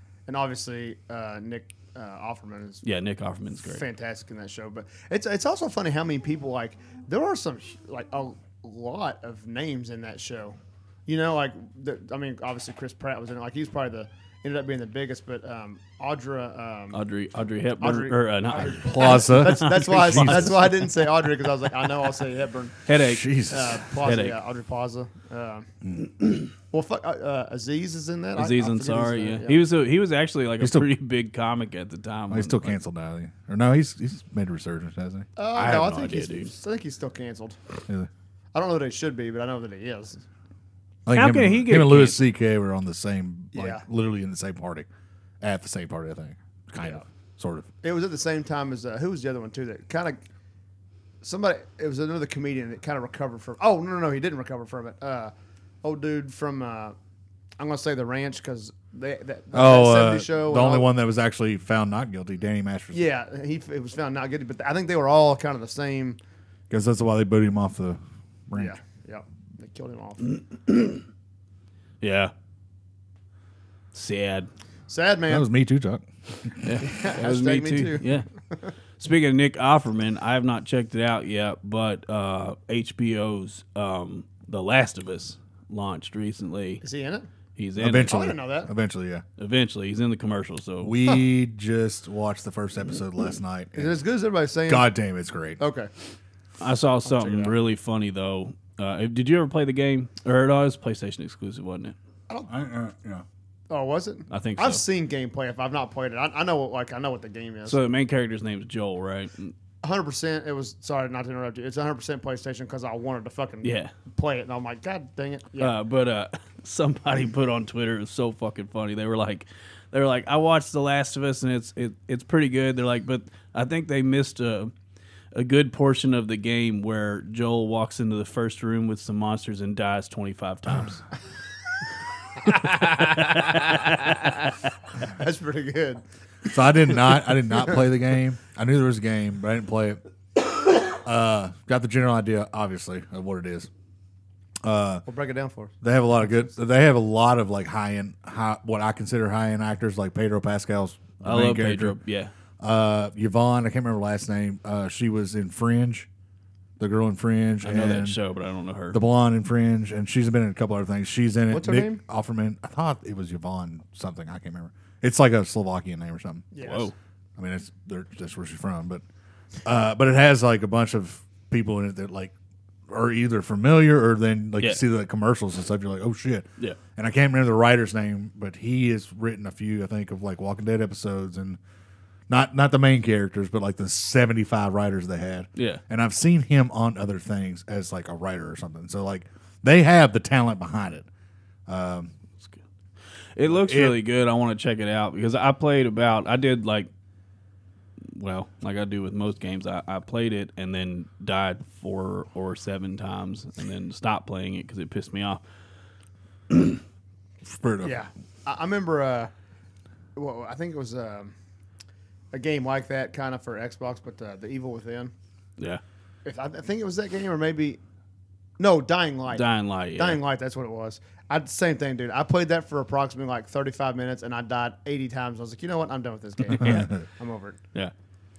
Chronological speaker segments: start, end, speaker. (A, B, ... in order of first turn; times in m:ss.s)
0:00.3-0:02.8 A
0:02.8-0:03.8 B
0:03.6-0:17.0 A
0:16.9-0:20.5 B
0:17.8-0:22.7 A
0:18.6-0:20.8 C
0:22.8-0:23.2 B
0:23.0-0:23.8 C
0:23.5-0:25.7 A
0:24.0-0:24.4 B
0:26.7-0:29.6 A
0:28.3-0:32.8 B
0:30.6-0:30.9 C
0:32.3-0:35.3 C
0:35.4-0:37.6 A
0:35.5-0:36.5 B
0:38.5-0:40.2 A
0:41.0-0:44.9 C
0:41.1-0:42.2 B
0:43.5-0:43.8 A
0:45.4-0:47.7 C
0:47.8-0:50.2 A
0:51.2-0:55.3 A
0:55.8-0:56.9 A
0:57.6-1:00.9 A
0:59.5-1:03.0 C
1:02.9-1:06.2 A
1:06.7-1:08.7 C
1:08.6-1:10.3 A
1:10.7-1:11.0 B
1:12.0-1:12.3 B
1:13.9-1:14.5 B
1:14.9-1:15.4 A
1:15.3-1:16.7 C
1:16.6-1:18.2 B
1:16.8-1:18.7 A
1:19.0-1:26.8 B
1:26.8-1:27.3 A
1:27.6-1:28.1 B
1:27.8-1:29.2 C
1:28.0-1:28.7 A
1:29.4-1:31.0 B
1:30.8-1:34.0 C
1:33.7-1:34.9 A
1:34.7-1:35.6 C
1:35.6-1:35.9 A
1:36.6-1:42.0 B
1:37.0-1:37.5 A
1:42.5-1:43.2 C
1:43.7-1:47.8 A
1:44.3-1:44.8 B
1:47.7-1:49.5 B
1:49.8-1:55.8 A
1:53.6-1:53.9 B
1:55.6-2:04.7 B
2:05.3-2:11.0 B
2:12.4-2:14.4 B
2:15.0-2:16.0 A
2:16.5-2:20.0 C
2:20.8-2:23.7 C
2:24.6-2:25.0 C
2:25.0-2:26.5 A
2:25.8-2:32.0 C
2:31.2-2:32.3 B
2:32.6-2:36.1 C
2:36.8-2:38.2 C
2:37.6-2:39.0 B
2:38.9-2:46.5 C
2:41.5-2:42.0 A
2:46.5-2:46.9 A
2:46.6-2:46.9 B
2:47.4-2:49.0 C
2:49.6-2:52.3 C
2:52.9-3:01.6 C
3:02.3-3:11.1 C
3:05.6-3:05.8 B
3:11.7-3:12.1 C
3:13.3-3:16.9 B
3:13.5-3:14.0 C
3:18.1-3:25.4 B
3:26.5-3:26.8 B
3:27.4-3:28.0 C
3:27.8-3:29.3 A
3:30.2-3:31.3 A
3:32.3-3:35.1 A
3:36.2-3:37.8 A
3:38.6-3:47.6 A
3:39.3-3:40.2 B
3:46.5-3:46.9 B
3:46.5-3:47.0 C